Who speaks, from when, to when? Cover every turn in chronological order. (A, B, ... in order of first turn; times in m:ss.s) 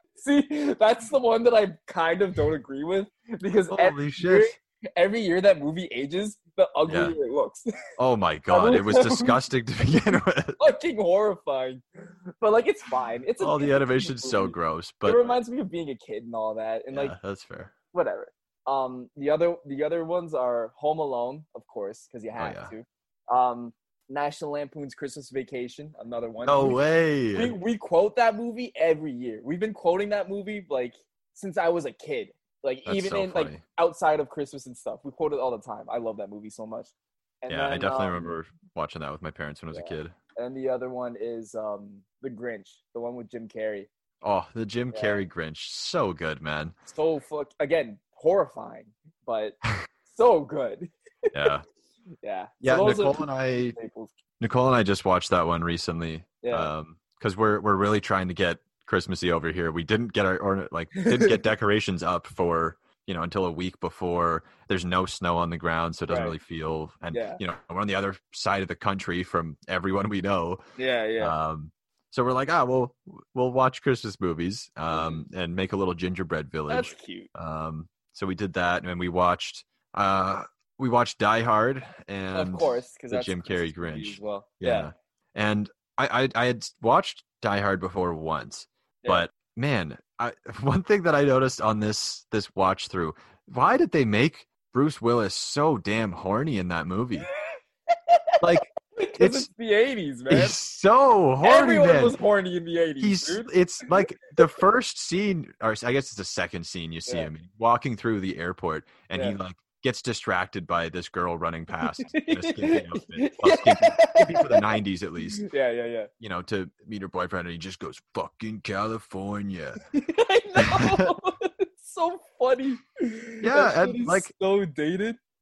0:00.2-0:07.6 A
0:03.7-0:04.5 B
0:06.8-0:07.2 B
0:08.0-0:10.6 B
0:08.5-0:09.3 A
0:10.6-0:11.8 A
0:12.4-0:17.2 A
0:13.4-0:15.4 B
0:16.9-0:17.7 B
0:17.9-0:26.8 A
0:22.4-0:22.7 B
0:26.4-0:27.6 B
0:27.3-0:38.3 A
0:32.8-0:33.6 B
0:37.5-0:40.1 B
0:39.7-0:43.9 A
0:44.2-0:46.8 B
0:44.9-0:45.2 A
0:46.9-0:51.5 A
0:51.3-0:51.6 B
0:52.2-0:54.1 A
0:52.6-0:53.8 B
0:54.4-1:10.6 B
0:56.4-0:56.7 A
1:01.0-1:01.3 A
1:06.1-1:06.4 A
1:07.1-1:07.4 A
1:10.8-1:11.3 A
1:11.2-1:37.3 B
1:14.9-1:15.2 A
1:16.7-1:17.3 A
1:22.3-1:24.9 A
1:37.9-1:40.6 A
1:38.4-1:39.5 B
1:40.3-1:42.2 B
1:41.4-1:44.0 A
1:43.0-1:55.5 B
1:49.1-1:49.4 A
1:52.0-1:54.8 A
1:55.4-1:56.1 A
1:56.2-1:59.8 B
1:59.9-2:05.2 A
2:00.6-2:01.1 B
2:03.4-2:04.3 B